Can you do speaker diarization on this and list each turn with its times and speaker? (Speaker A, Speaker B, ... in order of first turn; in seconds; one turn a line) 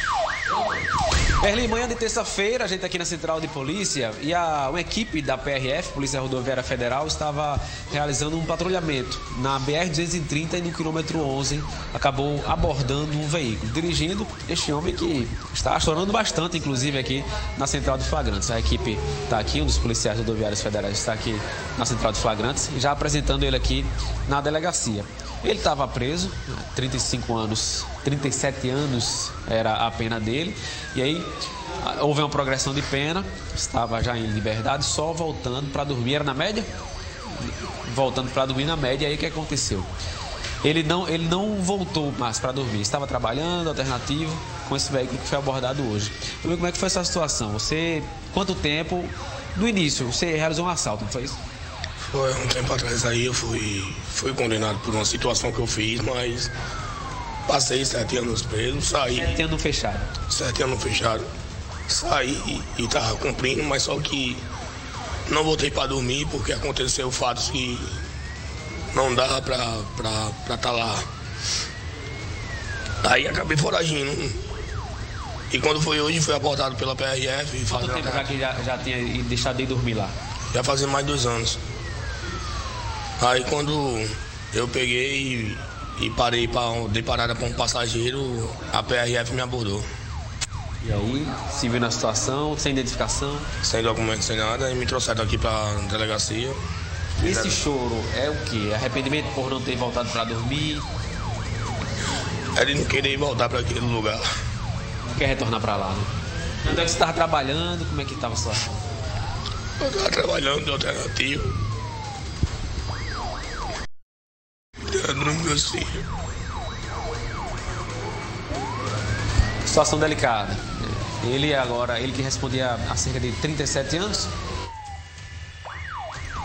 Speaker A: 1.4-36.7
Speaker A: 37.3-39.9
Speaker A: 40.6-51.4
Speaker B: 52.1-56.5
Speaker B: 57.5-59.3
Speaker A: 59.2-60.1
Speaker B: 60.3-61.2
Speaker B: 61.9-64.4
Speaker B: 65.3-68.0
Speaker B: 68.9-71.0
Speaker B: 73.0-74.4
Speaker B: 75.5-78.3
Speaker A: 77.7-80.1
Speaker B: 80.5-81.6
Speaker B: 83.2-89.9
Speaker A: 90.8-93.5
Speaker B: 93.6-96.6
Speaker A: 97.2-100.8
Speaker B: 97.2-97.5
Speaker B: 102.5-104.2
Speaker A: 105.1-106.1
Speaker A: 106.6-108.8
Speaker B: 109.8-111.5
Speaker B: 114.8-116.0
Speaker A: 119.7-124.3